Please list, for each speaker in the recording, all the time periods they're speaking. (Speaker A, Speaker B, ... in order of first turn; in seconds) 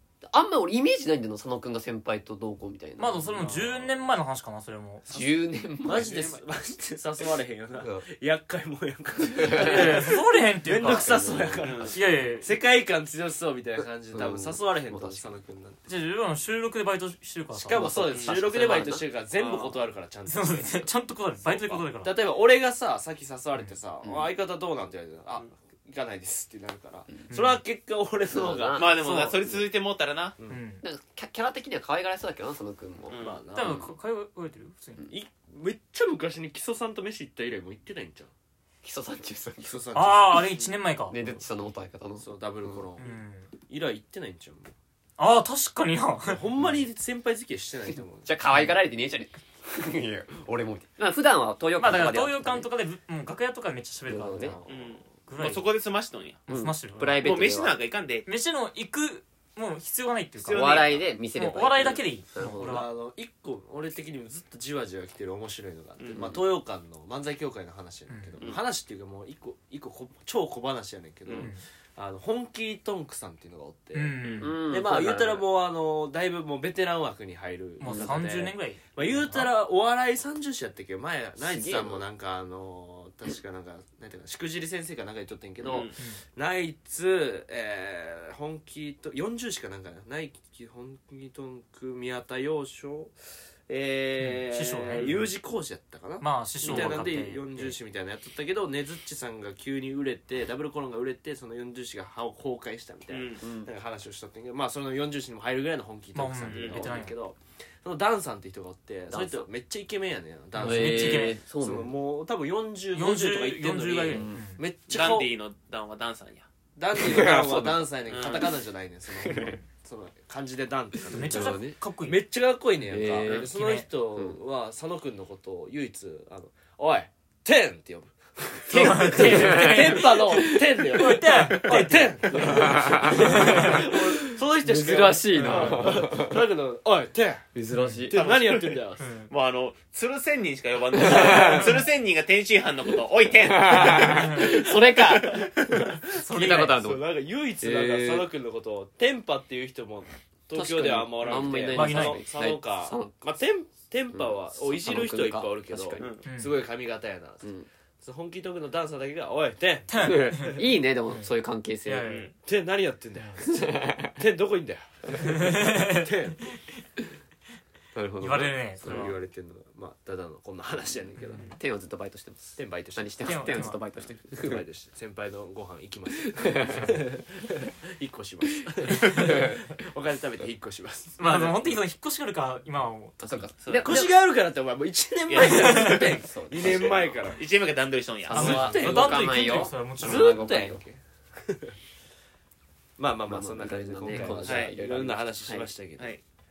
Speaker A: 0.2-3.8, 5.1-6.3, 7.8-8.1, 9.3-10.1, 10.7-12.0, 14.1-15.4, 17.7-19.1, 24.0-24.3, 28.3-29.6, 30.8-33.8, 38.8-39.8, 41.1-42.8, 48.2-52.7, 54.1-54.6, 56.5-57.8, 60.5-62.7, 74.4-75.4, 77.8-78.2, 81.4-82.0, 96.6-97.7, 103.4-103.7, 109.1-109.5, 110.6-111.9, 114.1-114.4, 116.9-118.4, 119.2-119.6, 121.1-121.7, 122.9-123.5, 128.7-131.3, 132.3-136.4, 137.5-138.2, 140.9-141.8, 143.4-145.5, 146.3-147.0, 147.6-148.3, 150.5-153.2, 154.1-156.1, 160.0-162.3, 163.4-164.1, 167.9-169.1, 171.3-174.6, 176.3-176.9, 179.3-179.6, 183.2-184.1, 186.2-187.2, 188.2-190.8, 193.3-195.7
Speaker B: 3.0-5.0, 9.4-11.3, 11.9-12.5, 15.9-17.9, 20.3-22.1, 27.3-27.6, 30.5-30.8, 33.5-35.0, 39.9-41.2, 43.0-43.5, 45.2-46.4, 51.8-54.6, 55.3-55.7, 56.5-57.2, 58.2-62.9, 68.1-68.4, 71.4-71.6, 73.9-74.6, 77.8-79.5, 94.2-95.2, 96.2-97.7, 106.1-107.1, 110.5-111.4, 112.9-114.6, 121.1-122.2, 123.2-123.8, 128.7-133.9, 135.3-136.0, 137.7-138.1, 139.0-139.3, 141.3-141.7, 143.8-144.4, 146.2-146.8, 151.3-152.2, 156.2-156.5, 159.9-161.3, 161.8-162.3, 165.3-166.1, 168.2-169.2, 173.2-173.8, 181.2-183.5, 185.5-186.1, 188.3-190.6
Speaker C: 3.4-4.0, 5.0-15.9, 17.5-20.9, 21.4-28.9, 33.2-33.9, 35.1-38.3, 39.6-40.7, 42.2-43.2, 43.7-44.7, 46.2-48.3, 54.4-55.0, 60.4-61.0, 62.4-93.1, 93.7-115.3, 116.8-137.5, 138.1-139.1, 144.0-159.9, 162.4-166.4, 168.8-171.4, 172.6-181.8, 183.8-187.4, 188.3-191.7, 193.0-196.1
Speaker D: 6.0-6.4, 11.6-11.9, 18.1-18.4, 19.4-19.8, 21.5-21.8, 28.7-30.4, 33.1-33.4, 54.7-56.4, 57.2-58.3, 66.0-66.3, 71.2-71.5, 74.2-74.5, 85.6-85.9, 103.1-103.4, 106.5-106.8, 114.9-116.5, 118.1-118.5, 138.1-144.4, 156.0-156.2, 183.6-183.9, 185.3-188.7, 194.4-194.7